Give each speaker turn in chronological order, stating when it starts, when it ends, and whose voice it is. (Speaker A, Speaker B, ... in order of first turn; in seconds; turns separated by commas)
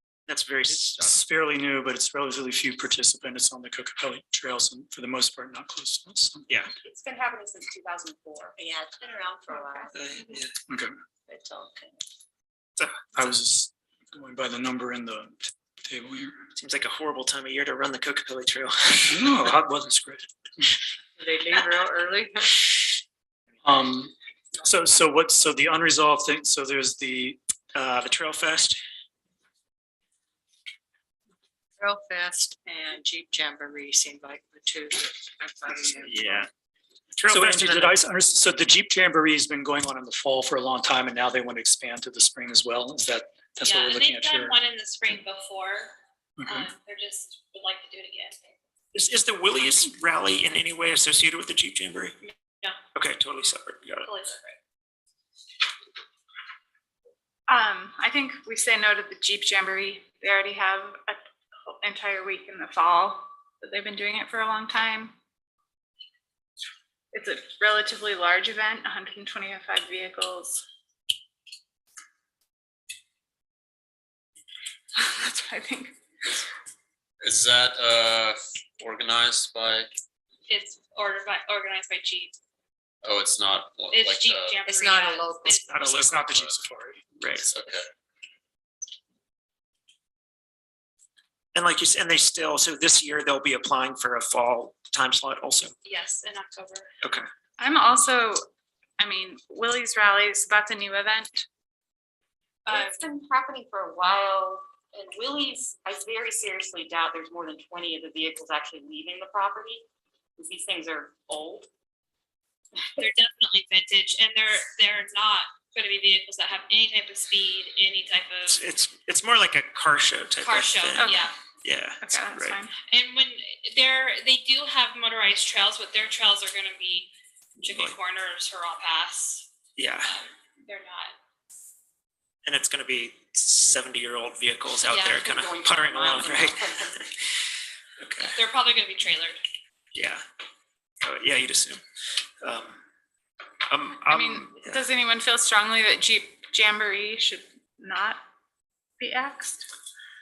Speaker A: 0.3-1.1, Speaker B: 1.0-6.5, Speaker C: 7.0-10.2, Speaker A: 9.9-10.5, Speaker B: 10.7-10.9, Speaker C: 11.3-11.8, Speaker A: 12.8-13.0, Speaker B: 13.2-16.4, Speaker A: 16.6-19.4, Speaker B: 19.1-20.3, Speaker D: 21.2-22.6, Speaker B: 23.6-27.4, Speaker A: 27.7-28.8, Speaker D: 31.8-36.5, Speaker A: 36.0-36.5, Speaker A: 37.2-38.0, Speaker B: 37.3-44.6, Speaker E: 43.6-45.9, Speaker B: 46.4-46.7, Speaker E: 46.5-48.5, Speaker A: 48.9-52.1, Speaker A: 52.9-54.1, Speaker E: 54.0-54.6, Speaker F: 57.5-61.2, Speaker F: 61.7-65.1, Speaker F: 67.1-70.6, Speaker F: 75.0-75.9, Speaker G: 77.2-79.9, Speaker E: 80.5-82.3, Speaker G: 83.0-84.6, Speaker E: 83.9-86.1, Speaker D: 84.6-85.7, Speaker A: 85.7-86.2, Speaker B: 85.8-87.0, Speaker G: 86.2-86.5, Speaker A: 87.2-87.5, Speaker G: 87.3-87.9, Speaker A: 91.5-95.7, Speaker E: 95.8-96.9, Speaker F: 97.6-98.4, Speaker F: 99.0-101.5, Speaker E: 102.7-103.0, Speaker C: 102.7-109.8, Speaker C: 110.4-111.7, Speaker E: 113.0-118.6, Speaker A: 118.5-122.6, Speaker E: 120.4-121.3, Speaker F: 121.0-121.3, Speaker F: 122.0-122.7, Speaker E: 122.9-127.1, Speaker E: 127.6-129.5, Speaker A: 129.8-130.1, Speaker E: 130.1-131.1, Speaker A: 132.4-137.1, Speaker E: 134.9-135.2, Speaker C: 135.2-137.0, Speaker A: 138.0-138.3, Speaker E: 138.3-139.4, Speaker A: 139.9-140.2, Speaker A: 141.0-141.8, Speaker A: 142.4-142.8, Speaker A: 143.7-144.8, Speaker F: 144.1-148.2, Speaker F: 149.0-149.7